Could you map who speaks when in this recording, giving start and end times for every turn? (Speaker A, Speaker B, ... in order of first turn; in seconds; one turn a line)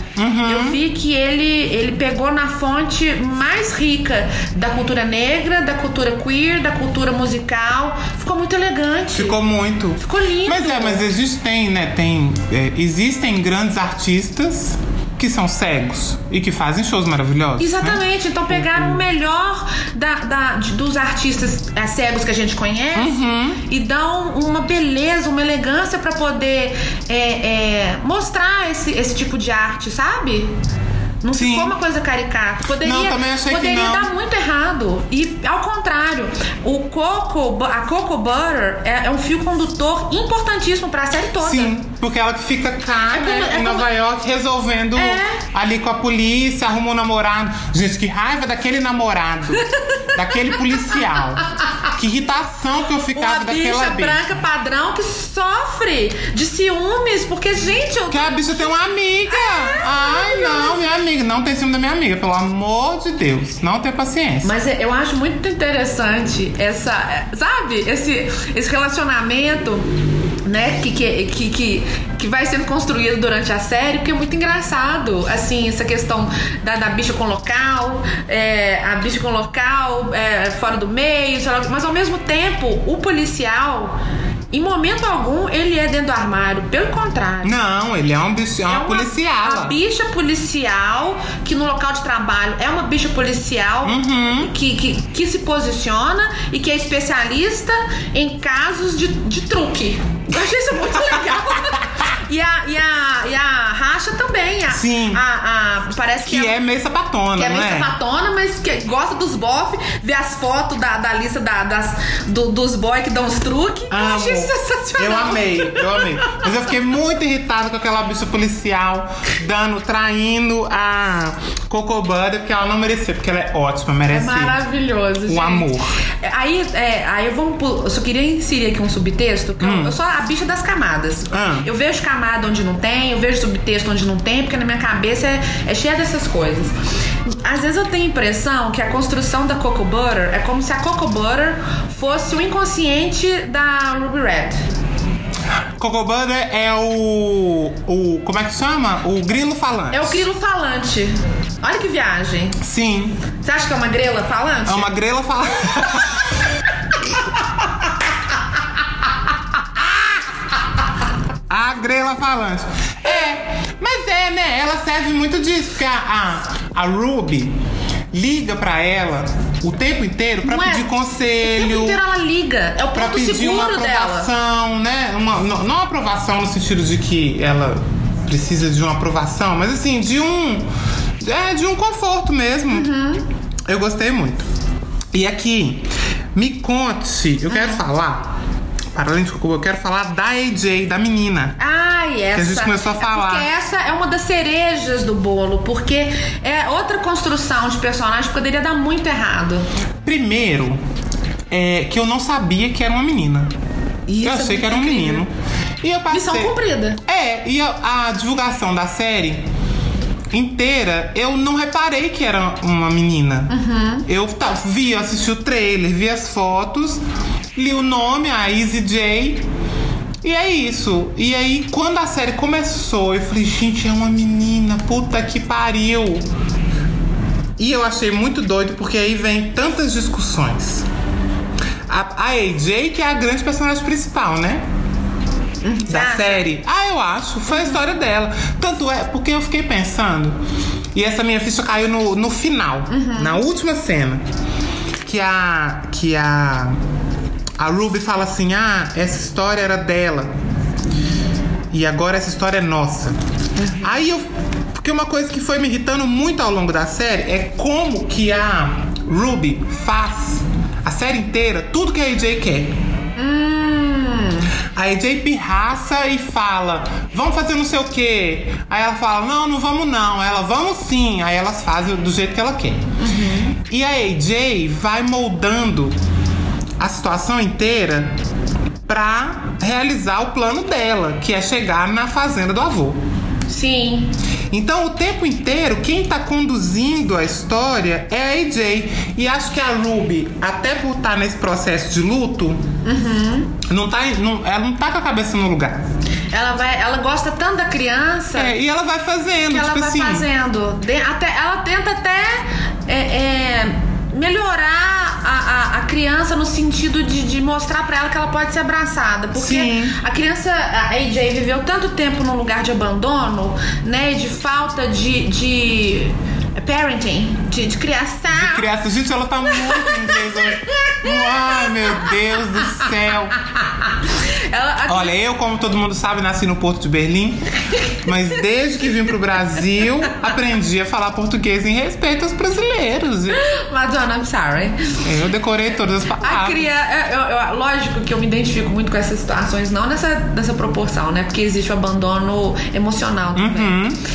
Speaker A: 0.2-0.8
Speaker B: 0.5-9.4
Speaker A: 9.1-19.0
Speaker B: 10.0-11.1
Speaker B: 17.6-30.5
Speaker A: 22.9-23.6
Speaker B: 31.2-41.7
Speaker A: 31.3-31.7
Speaker A: 32.8-34.1
Speaker A: 41.4-54.2
Speaker B: 43.1-43.9
Speaker B: 45.0-45.4
Speaker B: 49.8-51.2
Speaker B: 53.1-58.7
Speaker A: 58.1-64.5
Speaker B: 59.3-60.8
Speaker B: 64.4-69.9
Speaker B: 70.4-84.0
Speaker B: 84.5-87.5
Speaker A: 87.4-89.8
Speaker B: 88.7-106.5
Speaker A: 93.8-94.5
Speaker A: 100.9-101.4
Speaker A: 104.7-105.2
Speaker A: 106.2-107.9
Speaker B: 107.3-116.5
Speaker A: 113.9-124.6
Speaker B: 124.1-136.7
Speaker A: 125.2-125.9
Speaker A: 129.6-129.9
Speaker A: 131.3-131.7
Speaker B: 137.2-144.6
Speaker A: 145.8-150.3
Speaker B: 149.9-152.6
Speaker A: 152.6-153.2
Speaker B: 153.4-154.9
Speaker A: 154.7-156.2
Speaker A: 161.5-167.6
Speaker A: 168.1-172.0
Speaker B: 170.4-174.3
Speaker A: 172.9-180.7
Speaker A: 181.2-182.9
Speaker B: 182.7-183.2
Speaker A: 183.7-184.5
Speaker A: 185.1-188.3
Speaker B: 187.5-187.8
Speaker A: 188.9-191.6
Speaker B: 191.6-199.7
Speaker A: 192.3-193.5
Speaker A: 200.0-200.8
Speaker A: 201.5-203.5
Speaker B: 204.1-205.2
Speaker A: 204.2-205.3
Speaker A: 205.8-209.5
Speaker B: 206.1-207.0
Speaker A: 210.3-213.5
Speaker B: 213.5-214.1
Speaker A: 214.1-217.0
Speaker A: 217.5-219.5
Speaker A: 220.2-226.3
Speaker A: 227.6-230.9
Speaker A: 231.9-234.6
Speaker B: 235.6-236.4
Speaker A: 235.8-240.4
Speaker B: 237.5-237.8
Speaker A: 240.9-244.2
Speaker B: 242.9-243.4
Speaker A: 245.0-246.8
Speaker A: 247.6-250.3
Speaker A: 251.7-253.2
Speaker B: 253.6-253.9
Speaker A: 253.8-254.2
Speaker A: 254.8-262.8
Speaker B: 263.1-264.5
Speaker A: 264.7-272.9
Speaker B: 273.0-273.6
Speaker A: 273.6-276.0
Speaker A: 276.8-278.1
Speaker A: 278.9-283.0
Speaker B: 283.5-284.1
Speaker A: 284.5-292.6
Speaker B: 292.8-293.6
Speaker A: 293.6-295.8
Speaker B: 296.3-298.5
Speaker A: 298.3-300.3
Speaker B: 299.5-318.6
Speaker A: 309.3-310.0
Speaker A: 318.3-323.4
Speaker B: 319.6-322.9
Speaker B: 323.8-325.1
Speaker A: 324.9-333.4
Speaker B: 333.3-335.0
Speaker A: 335.0-336.7
Speaker B: 336.2-343.8
Speaker A: 343.3-344.0